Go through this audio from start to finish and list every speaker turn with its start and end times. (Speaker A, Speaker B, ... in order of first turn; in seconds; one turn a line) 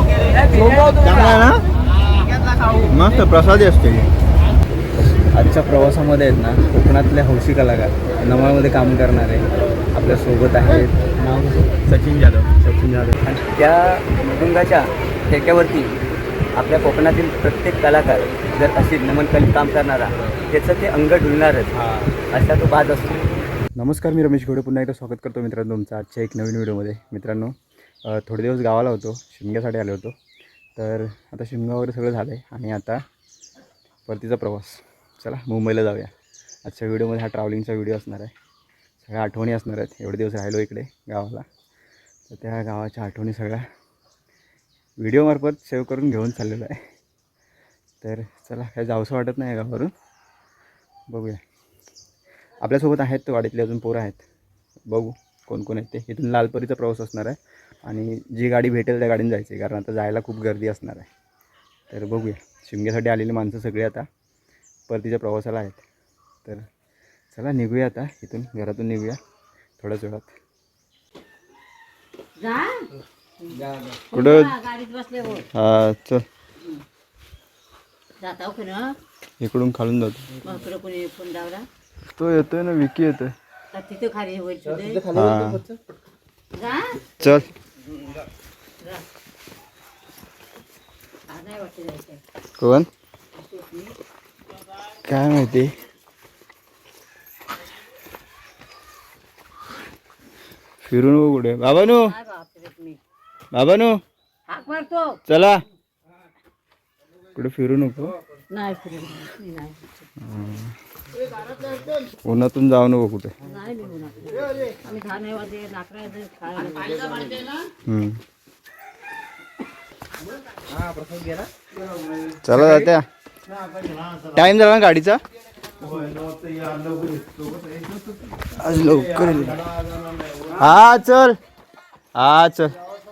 Speaker A: 0.5-1.6
Speaker A: 2.8-4.1
Speaker A: 5.3-13.1
Speaker B: 13.2-15.9
Speaker B: 16.6-21.7
Speaker A: 21.7-22.1
Speaker B: 22.3-23.2
Speaker A: 23.8-27.5
Speaker A: 28.0-30.1
Speaker A: 30.8-33.0
Speaker A: 34.1-36.1
Speaker A: 36.6-38.3
Speaker A: 39.0-41.4
Speaker A: 42.3-43.6
Speaker A: 45.0-46.8
Speaker A: 48.0-49.9
Speaker A: 51.1-51.4
Speaker A: 52.6-54.2
Speaker A: 54.9-61.1
Speaker A: 61.9-64.1
Speaker A: 64.9-65.8
Speaker A: 67.3-69.2
Speaker A: 69.8-70.3
Speaker C: 72.4-72.8
Speaker A: 74.1-74.6
Speaker C: 74.1-75.4
Speaker A: 75.5-76.2
Speaker C: 78.2-78.9
Speaker A: 79.4-80.3
Speaker C: 80.4-81.7
Speaker A: 82.1-83.3
Speaker C: 83.7-85.0
Speaker A: 85.1-85.6
Speaker C: 86.5-86.9
Speaker A: 87.2-87.5
Speaker C: 91.3-92.2
Speaker A: 92.6-92.9
Speaker C: 93.3-93.9
Speaker A: 95.0-95.7
Speaker A: 100.8-102.2
Speaker C: 102.1-103.0
Speaker A: 103.5-104.0
Speaker C: 104.5-105.1
Speaker A: 105.3-105.6
Speaker A: 107.3-108.1
Speaker C: 108.5-109.8
Speaker A: 110.2-110.7
Speaker A: 112.2-113.3
Speaker C: 113.5-117.6
Speaker A: 117.8-118.2
Speaker A: 122.4-123.0
Speaker A: 124.3-125.2
Speaker A: 128.5-129.6
Speaker A: 130.6-131.3
Speaker A: 132.1-132.7